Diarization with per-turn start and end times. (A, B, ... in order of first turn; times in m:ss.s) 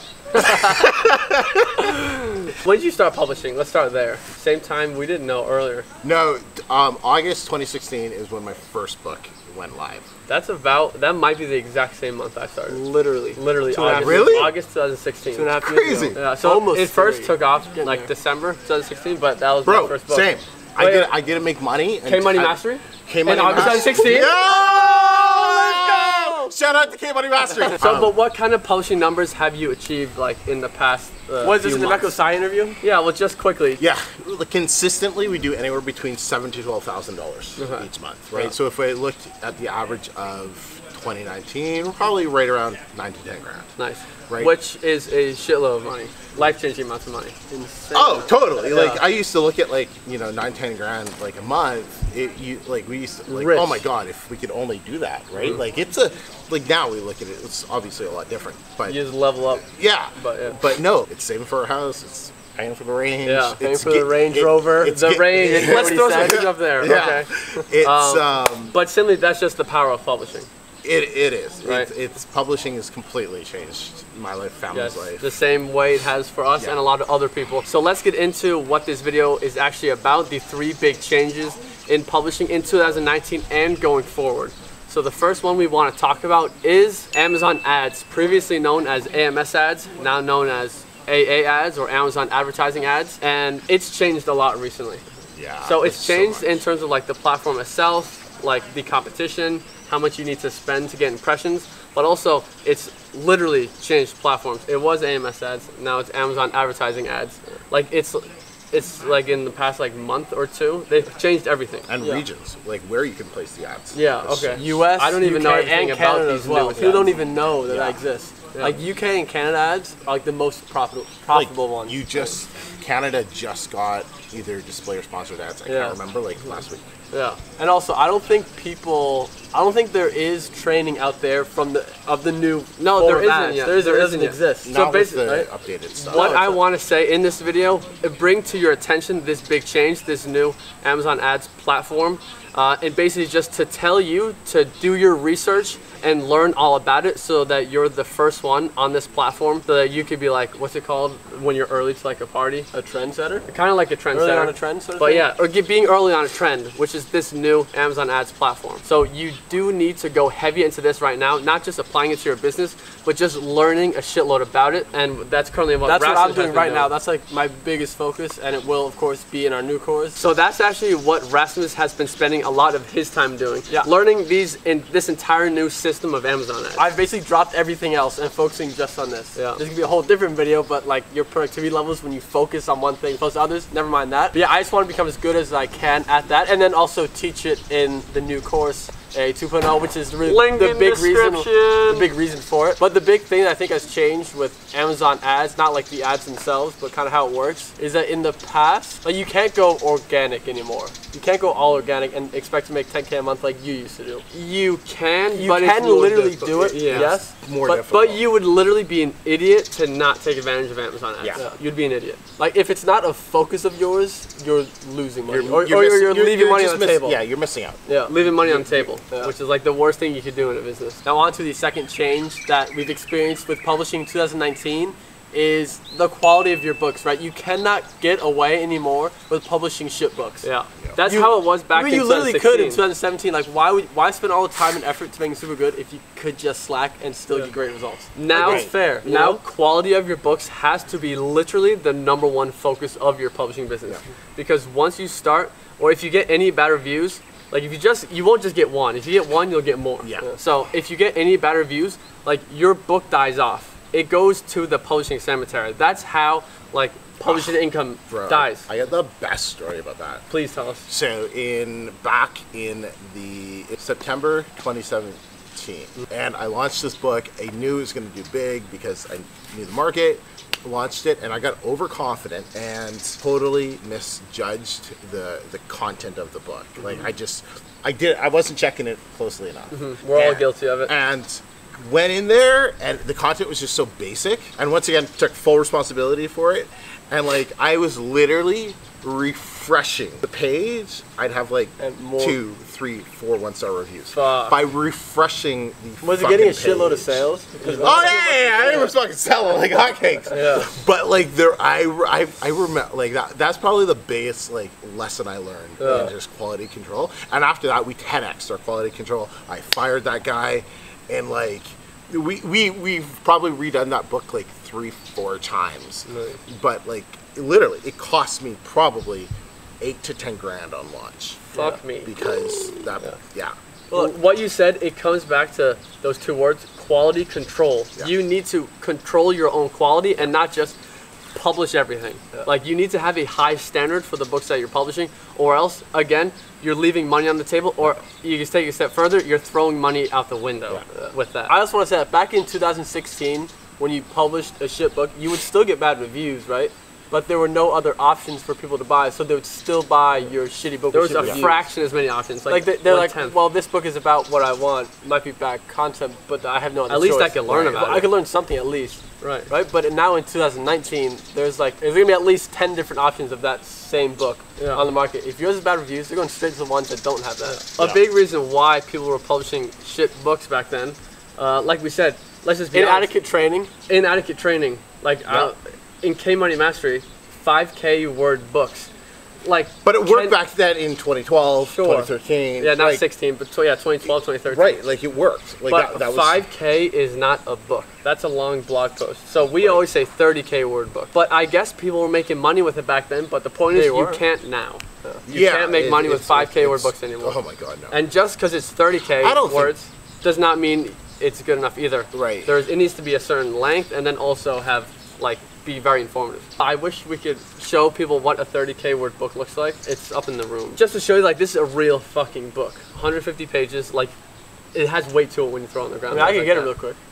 0:00.3-0:00.9 A
0:00.4-0:01.7 B
0:01.8-0:05.9 A
0:06.0-0:10.1 B
0:10.3-0:12.8 A
0:12.7-0:14.5 C
0:13.3-0:15.6 A
0:13.7-0:14.5 B
0:15.3-0:18.1 C
0:15.6-0:16.2 B
0:16.1-0:21.1 A
0:19.6-0:28.1 B
0:22.0-0:24.3 A
0:23.2-0:26.5 C
0:27.8-0:32.1 A
0:31.4-0:32.8 C
0:32.8-0:33.8 A
0:33.8-0:43.7 B
0:37.6-0:37.9 A
0:43.8-0:47.3 A
0:44.3-0:44.6 B
0:47.5-0:49.0 C
0:47.9-0:59.0 B
0:48.6-0:49.0 A
0:53.3-0:53.8 A
0:55.4-0:55.6 A
0:58.8-0:59.6 A
0:59.6-1:08.8 B
1:00.2-1:00.6 A
1:03.2-1:03.6 A
1:03.6-1:07.6 C
1:04.9-1:10.5 A
1:10.8-1:15.3 B
1:11.6-1:11.9 A
1:14.7-1:35.0 A
1:35.3-1:36.6 B
1:35.6-1:51.9 A
1:51.9-1:54.7 B
1:52.0-1:52.2 C
1:53.9-1:57.2 A
1:54.5-2:02.0 C
1:57.7-1:58.0 B
1:58.5-1:58.8 A
2:01.3-2:06.9 B
2:05.7-2:06.0 C
2:07.1-2:07.4 A
2:07.6-2:15.5 C
2:12.8-2:15.4 A
2:14.6-2:16.3 B
2:16.0-2:32.7 A
2:16.0-2:16.6 C
2:32.7-2:33.5 C
2:33.5-2:46.9 A
2:34.1-2:35.3 C
2:45.8-2:50.2 C
2:50.1-2:56.9 A
2:56.8-3:24.2 C
2:59.4-2:59.6 A
3:10.2-3:12.1 A
3:24.3-3:32.2 A
3:25.3-3:27.8 C
3:26.9-3:28.2 B
3:32.4-3:37.2 C
3:35.3-3:37.8 B
3:37.9-3:39.3 C
3:38.1-3:41.0 A
3:41.0-3:50.5 C
3:50.4-3:52.8 A
3:51.0-3:59.4 C
3:58.1-4:18.7 A
3:58.3-3:58.7 B
4:10.0-4:10.3 B
4:17.2-4:20.2 B
4:20.3-4:20.9 A
4:20.9-5:21.4 B
4:39.7-4:40.9 A
4:51.8-4:52.4 C
4:54.1-4:54.6 A
4:56.0-4:58.9 C
4:57.6-4:58.2 A
5:00.3-5:00.7 A
5:00.3-5:00.6 C
5:05.8-5:06.1 A
5:16.1-5:16.4 A
5:21.5-5:22.1 A
5:22.0-5:23.6 B
5:23.9-5:30.8 A
5:31.3-5:41.6 A
5:41.0-5:51.7 C
5:50.9-5:53.4 A
5:52.5-6:07.6 C
5:56.9-5:58.1 A
5:59.2-5:59.5 A
6:04.6-6:04.9 A
6:07.4-6:13.1 A
6:12.7-6:13.7 C
6:13.9-6:18.9 A
6:15.3-6:15.5 B
6:19.4-6:20.4 A
6:19.8-6:23.0 B
6:21.6-6:24.8 A
6:24.4-6:26.4 B
6:25.7-6:37.4 A
6:29.4-6:29.8 B
6:33.7-6:34.2 C
6:35.2-6:38.0 B
6:37.9-6:54.1 A
6:39.2-6:39.7 B
6:42.1-6:42.5 B
6:54.7-6:56.7 A
6:56.1-6:57.0 C